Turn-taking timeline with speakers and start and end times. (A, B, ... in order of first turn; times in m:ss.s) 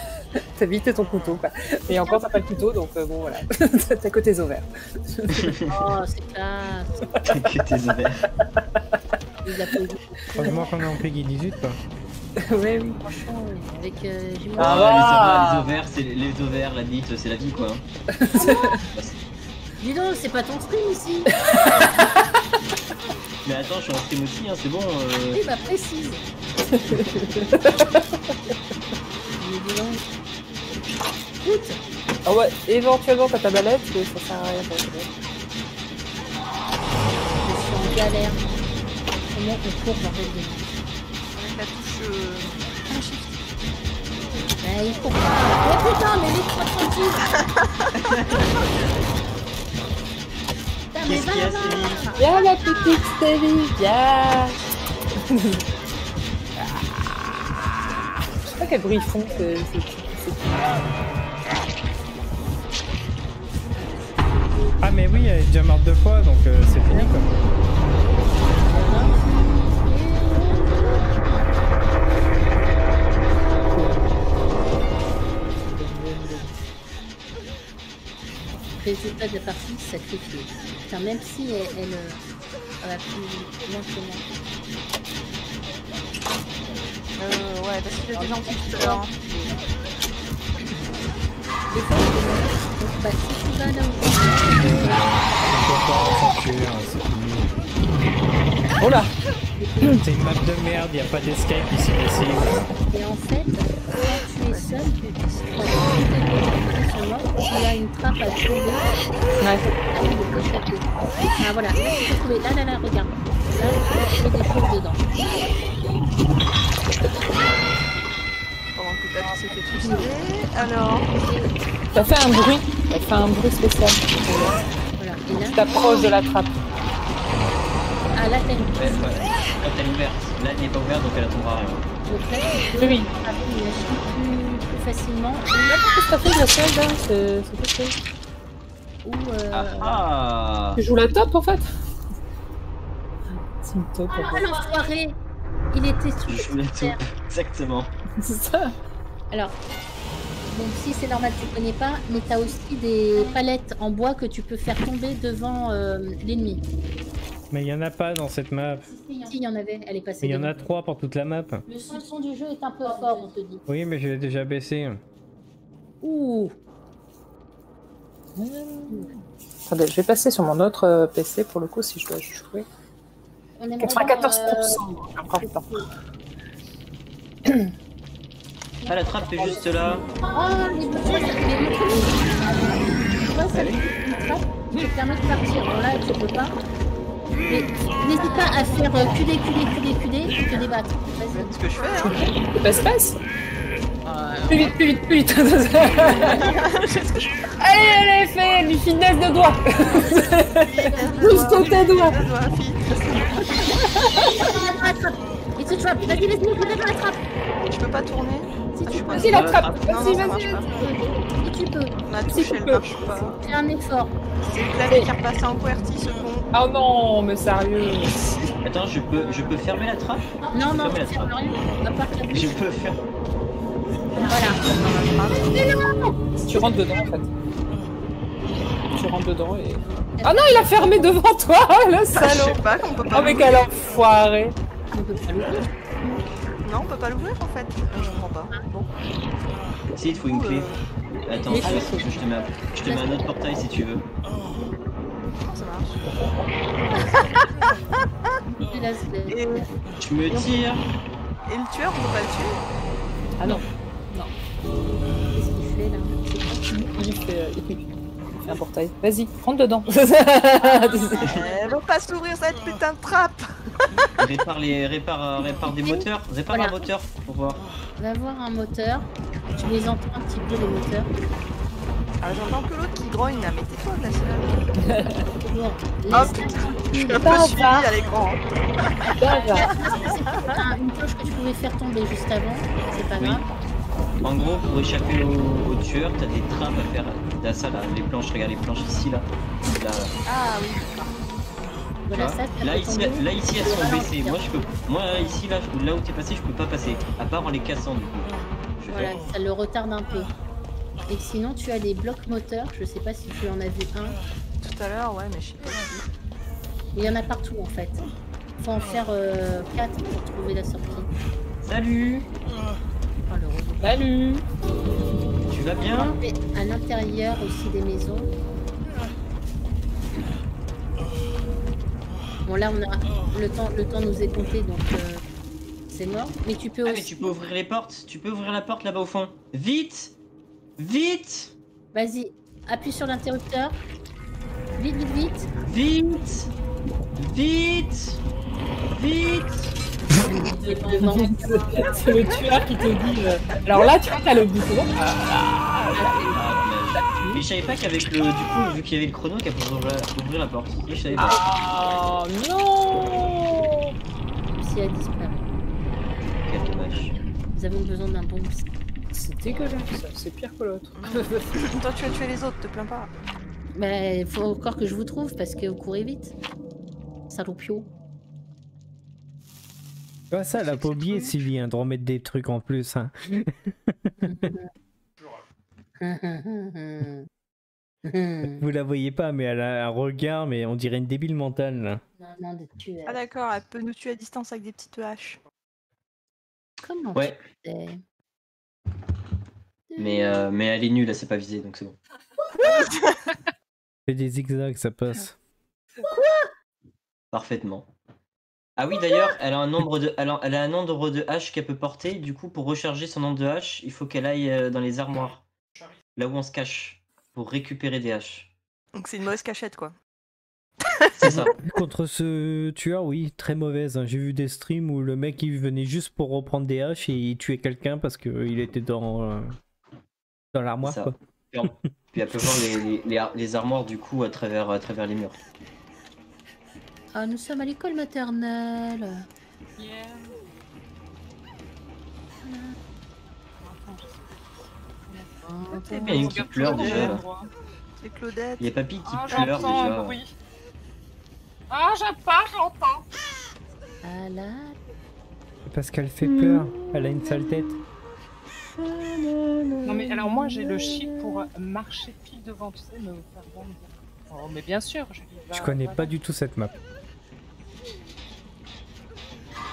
0:00.6-0:05.6 A
0:01.9-0:02.2 B
0:05.3-0:05.7 C
0:05.7-0:07.2 B
0:07.3-0:08.3 C
0:09.4-0:10.6 B
0:10.4-0:10.6 A
0:10.4-0:11.8 D
0:12.4-0:13.0 A
0:13.0-0:14.8 B
0:14.6-0:15.8 A
0:14.6-0:17.8 C
0:18.1-0:18.8 A
0:18.4-0:18.8 B
0:19.8-0:21.3 B
0:21.4-0:22.2 A
0:23.4-0:25.4 C
0:25.3-0:26.2 B
0:26.7-0:28.0 A
0:29.4-0:30.1 B
0:31.4-0:31.8 B
0:32.3-0:35.1 A
0:37.4-0:38.4 B
0:39.3-0:40.7 B
0:41.3-0:43.4 E
0:44.6-0:47.4 B
0:48.1-0:48.4 C
0:50.9-0:53.0 B
0:51.1-0:52.1 C
0:52.2-0:54.6 A
0:55.2-0:55.6 A
0:56.6-1:00.9 A
1:04.8-1:07.3 D
1:06.9-1:07.4 B
1:08.5-1:11.4 B
1:13.8-1:14.0 D
1:15.8-1:16.5 D
1:18.8-1:22.2 B
1:22.8-1:24.2 B
1:27.2-1:29.2 E
1:28.1-1:29.6 B
1:31.7-1:35.0 B
1:34.6-1:37.6 D
1:38.8-1:39.1 A
1:39.6-1:40.0 B
1:40.0-1:42.7 D
1:42.7-1:48.9 B
1:44.5-1:45.9 E
1:49.4-1:49.7 A
1:49.9-1:50.8 B
1:51.4-1:55.0 B
1:58.8-2:01.1 E
1:59.2-2:00.0 A
1:59.8-2:00.1 B
2:01.9-2:04.6 A
2:05.0-2:06.1 B
2:05.4-2:06.5 A
2:08.1-2:09.1 B
2:08.8-2:11.9 C
2:12.0-2:15.8 B
2:12.8-2:13.1 A
2:15.6-2:18.0 A
2:19.0-2:20.0 B
2:19.5-2:20.8 C
2:20.8-2:21.7 A
2:23.3-2:24.5 A
2:24.1-2:25.2 B
2:25.7-2:27.0 B
2:26.3-2:27.9 C
2:28.2-2:28.7 A
2:29.3-2:29.6 B
2:30.5-2:36.6 B
2:37.5-2:38.9 D
2:38.9-2:40.6 B
2:40.2-2:41.6 D
2:41.7-2:43.6 B
2:42.9-2:43.3 A
2:43.7-2:45.0 D
2:46.0-2:46.6 B
2:48.4-2:49.1 A
2:49.7-2:52.7 A
2:53.6-2:54.8 B
2:53.8-2:55.8 A
2:57.5-2:57.7 A
2:58.9-3:00.0 C
3:00.3-3:06.6 B
3:07.5-3:11.6 B
3:11.3-3:12.6 E
3:12.1-3:13.2 A
3:14.1-3:14.7 B
3:14.5-3:16.6 A
3:16.3-3:17.6 E
3:17.6-3:22.2 A
3:20.4-3:23.7 E
3:20.8-3:21.6 B
3:23.8-3:24.5 A
3:24.1-3:27.2 B
3:27.7-3:30.7 E
3:28.8-3:32.0 B
3:29.0-3:30.6 A
3:29.3-3:29.8 C
3:32.0-3:33.4 E
3:32.3-3:33.0 A
3:33.1-3:34.1 B
3:34.4-3:36.5 E
3:36.5-3:38.2 A
3:38.2-3:38.5 E
3:38.6-3:41.3 C
3:40.5-3:42.6 B
3:42.3-3:43.0 C
3:44.2-3:45.0 B
3:44.2-3:45.7 E
3:46.4-3:47.3 A
3:48.9-3:54.6 A
3:50.2-3:51.1 B
3:52.1-3:53.7 E
3:54.9-3:55.7 B
3:56.6-3:58.9 E
4:00.0-4:00.7 C
4:00.2-4:00.9 E
4:01.2-4:04.1 C
4:01.5-4:02.1 B
4:01.5-4:02.1 A
4:02.8-4:03.4 B
4:05.4-4:06.1 E
4:08.6-4:09.7 B
4:09.3-4:09.7 E
4:10.0-4:10.9 C
4:11.5-4:12.6 E
4:13.4-4:14.3 A
4:15.3-4:16.5 B
4:16.6-4:17.8 A
4:18.4-4:21.4 A
4:21.2-4:23.9 E
4:24.2-4:27.6 C
4:26.5-4:26.8 B
4:28.0-4:31.1 B
4:32.2-4:34.7 E
4:34.8-4:35.3 A
4:35.4-4:37.5 B
4:36.1-4:38.4 E
4:37.1-4:37.9 A
4:39.2-4:39.7 A
4:39.3-4:43.4 B
4:39.7-4:40.5 E
4:43.2-4:43.5 C
4:44.2-4:50.1 C
4:52.1-4:54.6 B
4:52.1-4:59.2 C
4:58.9-5:00.3 B
5:01.1-5:04.2 B
5:04.6-5:06.1 E
5:06.9-5:08.0 B
5:08.6-5:11.1 B
5:11.6-5:12.3 C
5:13.2-5:14.0 B
5:13.8-5:14.4 A
5:15.5-5:16.2 C
5:15.8-5:18.3 B
5:22.4-5:25.2 B
5:25.9-5:27.2 B
5:26.8-5:30.1 C
5:30.8-5:31.5 C
5:31.9-5:33.8 B
5:34.8-5:35.5 B
5:35.6-5:36.5 C
5:37.2-5:38.2 C
5:38.9-5:39.8 C
5:40.1-5:42.6 B
5:40.3-5:46.5 A
5:45.9-5:46.4 B
5:46.3-5:51.4 C
5:51.2-5:53.9 A
5:54.6-5:55.4 B
5:56.4-5:57.2 C
5:57.5-5:58.6 B
5:59.1-6:01.5 A
6:01.0-6:03.1 E
6:03.7-6:06.4 B
6:07.3-6:07.9 B
6:10.3-6:14.5 D
6:10.6-6:11.3 E
6:14.2-6:14.7 B
6:16.0-6:17.3 B
6:18.0-6:18.7 B
6:18.6-6:22.0 D
6:22.2-6:23.2 B
6:23.1-6:25.4 E
6:26.9-6:28.0 B
6:29.9-6:30.5 B
6:30.0-6:32.0 C
6:32.6-6:33.2 E
6:34.1-6:35.4 D
6:36.1-6:36.5 B
6:37.3-6:37.9 C
6:38.8-6:45.5 C
6:46.2-6:48.5 C
6:49.0-6:49.9 E
6:51.0-6:51.5 E
6:51.2-6:51.6 C
6:51.6-6:59.6 D
7:00.5-7:01.9 D
7:00.8-7:05.4 C
7:02.4-7:02.6 D
7:07.1-7:09.3 B
7:09.8-7:10.4 F
7:12.4-7:12.8 B
7:13.6-7:14.2 F
7:15.1-7:17.5 F
7:15.4-7:16.4 B
7:15.9-7:17.2 C
7:16.6-7:17.2 E
7:18.0-7:18.7 E
7:18.6-7:20.2 C
7:19.0-7:20.3 F
7:19.3-7:19.9 E
7:21.7-7:23.1 F
7:24.0-7:24.8 B
7:25.7-7:27.8 D
7:26.2-7:27.8 C
7:28.8-7:31.4 C
7:29.8-7:36.1 F
7:35.5-7:36.7 D